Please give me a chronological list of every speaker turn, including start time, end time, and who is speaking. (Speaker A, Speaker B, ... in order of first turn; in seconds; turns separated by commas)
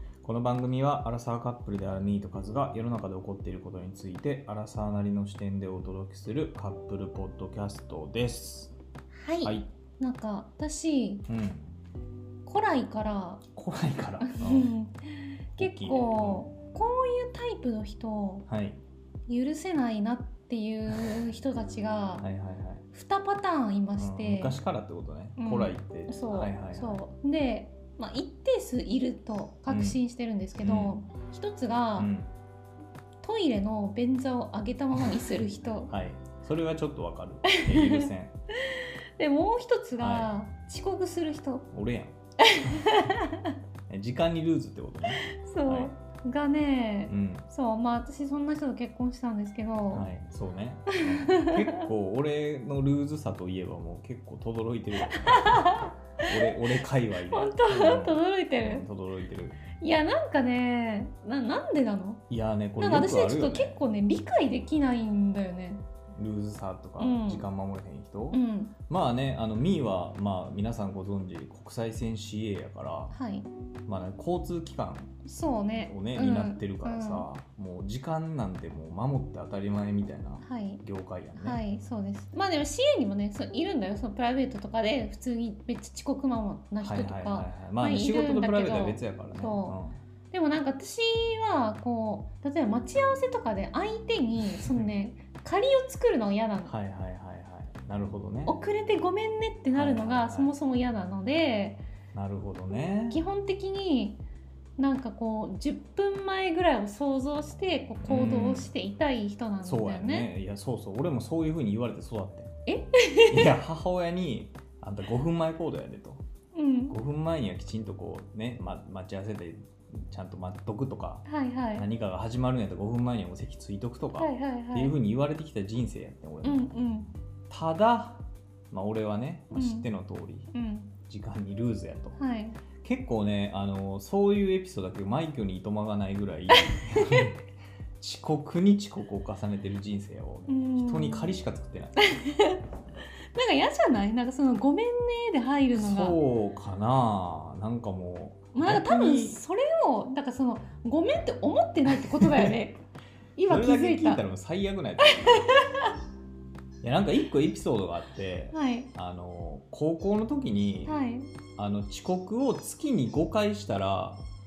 Speaker A: 0.2-8.7, Speaker B: 9.2-11.2, Speaker A: 9.4-9.7, Speaker A: 11.3-11.7, Speaker B: 12.4-13.4, Speaker A: 13.5-14.7, Speaker B: 14.2-18.4, Speaker A: 15.6-16.5, Speaker A: 18.5-18.8, Speaker B: 19.3-22.2, Speaker A: 20.9-21.2, Speaker A: 22.2-22.8, Speaker B: 22.9-24.6, Speaker A: 23.9-27.0, Speaker B: 25.4-32.1, Speaker A: 29.7-30.0, Speaker A: 30.6-30.9, Speaker A: 32.0-32.3, Speaker B: 33.2-35.9, Speaker A: 35.9-38.3, Speaker B: 37.4-41.6, Speaker A: 40.0-40.3, Speaker A: 41.7-42.1, Speaker B: 42.4-43.5, Speaker A: 43.9-45.9, Speaker B: 45.2-50.1, Speaker A: 47.1-47.5, Speaker A: 49.9-59.6, Speaker B: 50.9-51.9, Speaker B: 55.1-56.6, Speaker B: 57.2-58.8, Speaker B: 59.7-62.2, Speaker A: 62.3-63.8, Speaker B: 62.8-65.8, Speaker A: 66.1-73.1, Speaker B: 67.0-67.4, Speaker B: 68.3-68.7, Speaker B: 73.1-73.5, Speaker A: 73.9-75.1, Speaker B: 75.2-77.3, Speaker A: 75.7-81.6, Speaker B: 80.4-80.8, Speaker B: 81.3-89.8, Speaker A: 86.8-90.0, Speaker B: 90.3-96.7, Speaker A: 94.5-94.9, Speaker A: 96.7-98.5, Speaker B: 98.5-101.8, Speaker A: 99.7-100.5, Speaker A: 102.1-103.2, Speaker B: 103.1-104.2, Speaker B: 104.8-110.3, Speaker A: 108.0-108.7, Speaker A: 109.6-112.5, Speaker B: 112.7-113.5, Speaker A: 113.3-116.2, Speaker B: 116.5-116.9, Speaker A: 116.9-126.7, Speaker B: 121.2-121.8, Speaker B: 124.2-125.0, Speaker B: 126.4-127.1, Speaker A: 127.5-130.5, Speaker B: 129.5-129.9, Speaker B: 130.5-130.9, Speaker A: 131.1-132.2, Speaker B: 132.2-132.6, Speaker A: 132.8-137.4, Speaker B: 136.5-137.3, Speaker A: 138.0-142.0, Speaker B: 140.5-141.4, Speaker B: 142.0-142.6, Speaker B: 143.3-146.2, Speaker A: 145.7-149.4, Speaker B: 148.5-152.8, Speaker A: 151.9-152.6, Speaker B: 153.3-154.2, Speaker A: 153.5-155.6, Speaker B: 155.0-155.9, Speaker A: 156.8-161.0, Speaker B: 158.5-158.9, Speaker B: 160.8-161.3, Speaker A: 161.6-164.2